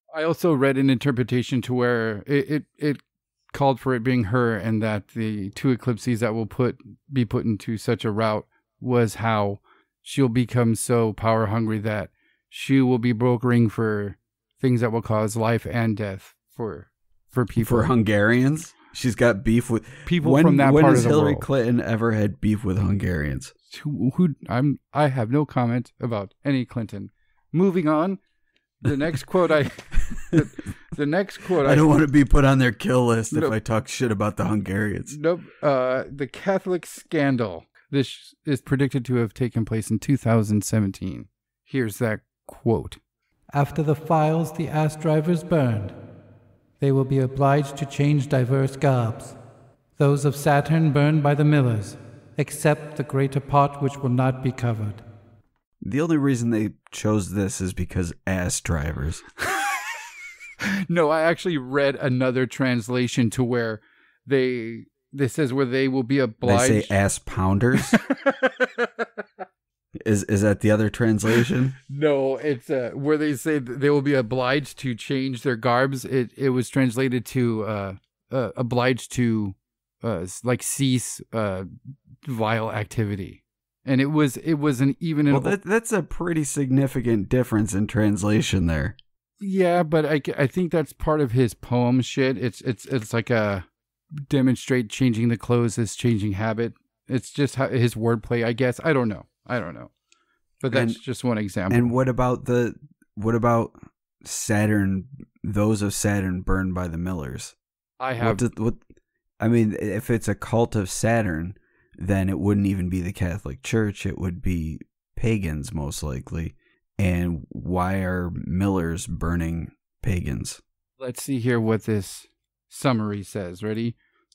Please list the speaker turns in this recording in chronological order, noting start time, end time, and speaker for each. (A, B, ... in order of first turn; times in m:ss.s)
0:00.1-0:17.9 A
0:17.6-0:23.5 B
0:20.0-0:21.5 A
0:23.7-0:28.2 A
0:28.8-0:31.9 A
0:31.6-0:35.2 B
0:35.1-0:43.0 A
0:43.5-0:46.0 C
0:46.8-0:49.4 C
0:50.0-0:55.0 C
0:55.8-0:59.2 B
1:00.9-1:06.9 A
1:06.4-1:08.0 B
1:07.9-1:09.0 A
1:10.0-1:11.8 B
1:11.9-1:21.7 A
1:22.2-1:25.6 A
1:25.3-1:29.0 B
1:29.4-1:39.9 A
1:40.6-1:41.9 A
1:40.7-1:41.0 B
1:41.7-1:47.6 B
1:48.0-1:48.4 A
1:48.2-1:48.8 B
1:49.4-2:00.6 B
2:01.0-2:04.0 A